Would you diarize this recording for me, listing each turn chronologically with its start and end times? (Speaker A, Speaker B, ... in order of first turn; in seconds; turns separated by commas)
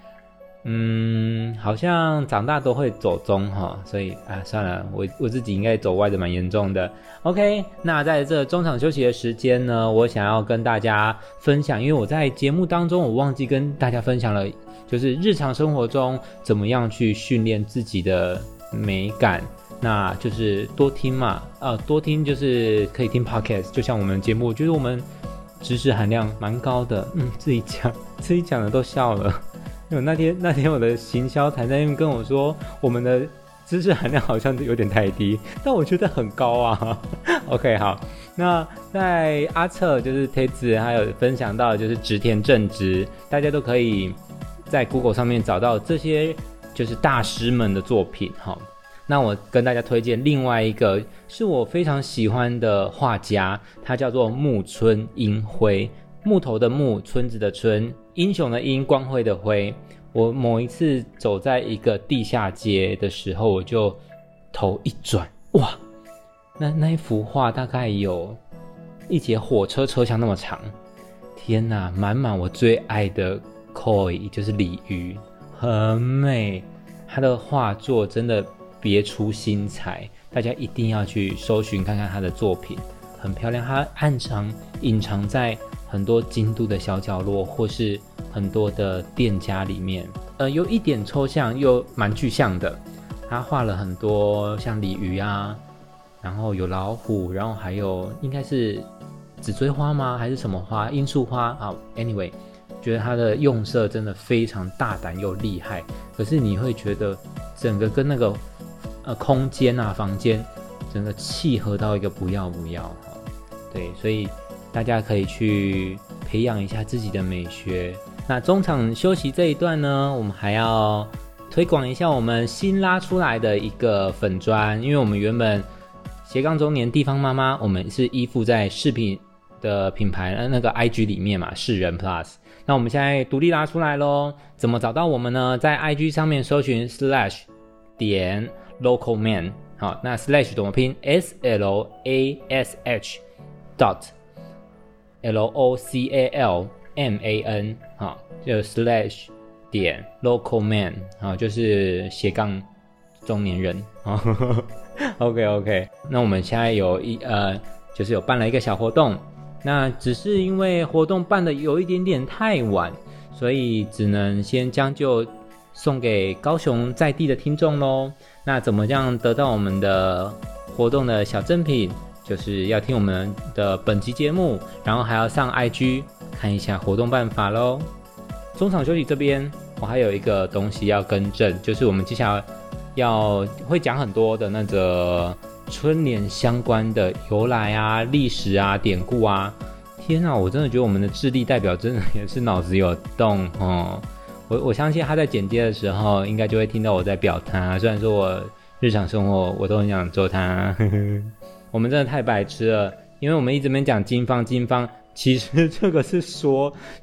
Speaker A: 0.6-25.0, Speaker A: 25.6-44.1, Speaker A: 44.7-64.0, Speaker A: 64.5-65.8, Speaker A: 66.6-68.4, Speaker A: 69.1-70.7, Speaker A: 71.3-95.6, Speaker A: 96.2-98.9, Speaker A: 99.4-108.4, Speaker A: 109.0-125.7, Speaker A: 126.2-143.2, Speaker A: 143.8-144.1, Speaker A: 145.2-152.7, Speaker A: 153.2-177.9, Speaker A: 178.5-206.8